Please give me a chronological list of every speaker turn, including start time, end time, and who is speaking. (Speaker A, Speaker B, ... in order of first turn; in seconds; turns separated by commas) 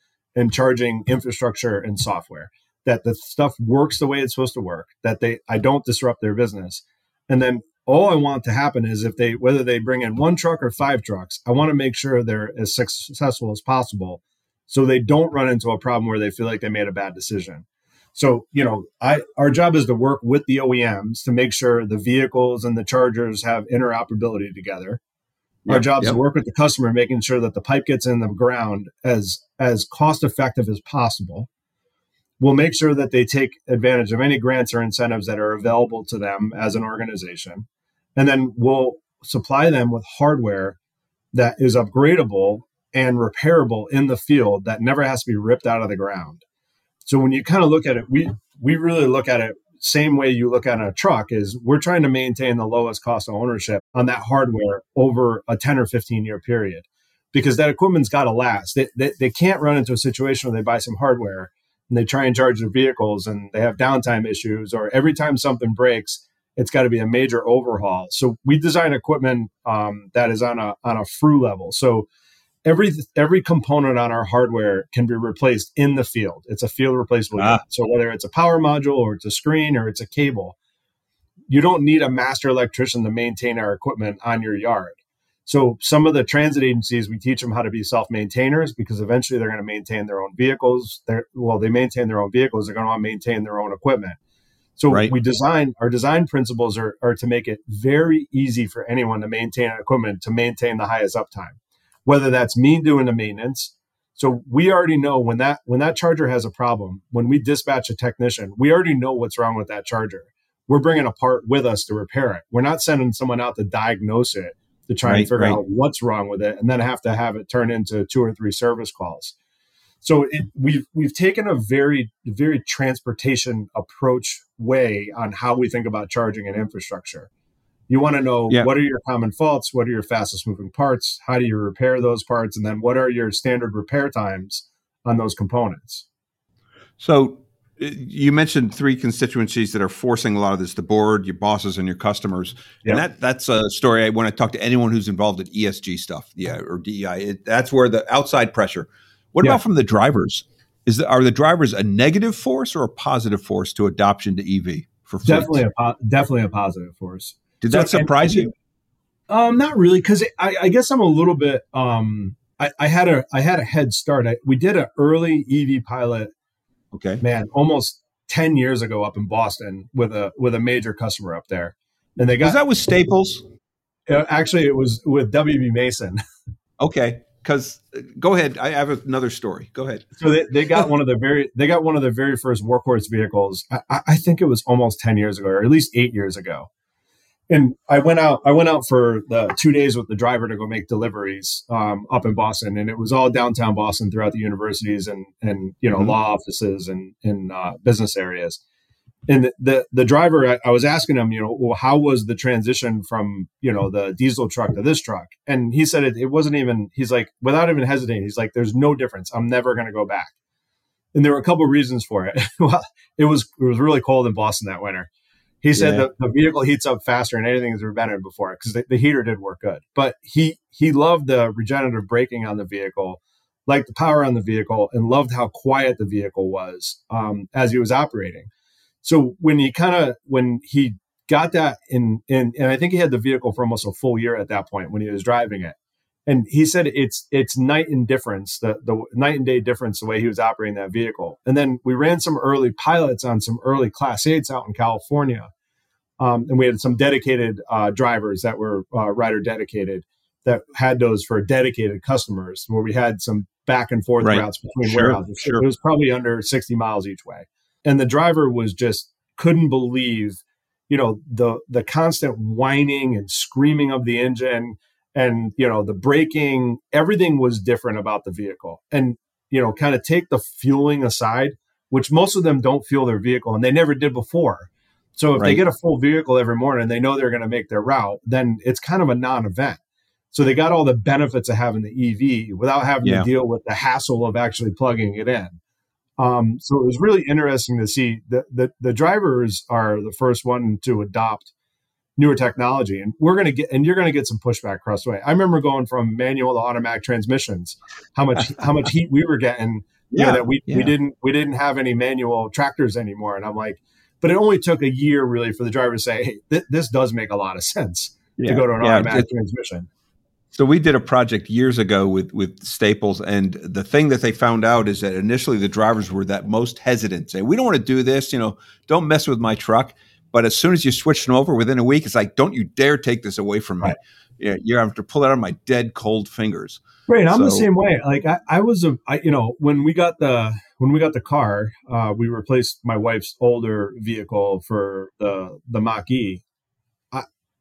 Speaker A: 0.3-25.0, Speaker B: 25.6-26.2, Speaker A: 25.7-31.5, Speaker A: 32.4-40.8, Speaker A: 41.3-46.4, Speaker A: 47.0-72.1, Speaker A: 72.6-80.5, Speaker A: 81.5-94.2, Speaker A: 94.8-119.3, Speaker B: 115.0-115.6, Speaker A: 120.0-127.3, Speaker A: 127.9-136.0, Speaker B: 137.0-155.6, Speaker A: 155.2-158.5, Speaker B: 157.6-158.5, Speaker A: 159.3-166.3, Speaker B: 166.9-167.2, Speaker A: 167.2-172.6, Speaker B: 172.4-173.4, Speaker A: 174.1-176.2, Speaker B: 176.8-180.1, Speaker A: 180.2-186.7, Speaker A: 187.5-198.6, Speaker A: 199.3-210.3, Speaker A: 211.1-215.1, Speaker A: 215.6-228.5, Speaker B: 215.8-216.1, Speaker A: 229.0-235.7, Speaker A: 236.3-245.5, Speaker A: 246.2-279.8, Speaker B: 254.2-255.6, Speaker B: 275.4-275.6, Speaker A: 280.3-285.6, Speaker B: 283.0-283.3, Speaker A: 286.2-291.5, Speaker A: 292.2-309.9, Speaker B: 300.1-300.9, Speaker B: 308.4-309.2, Speaker B: 310.5-327.7, Speaker A: 327.1-336.4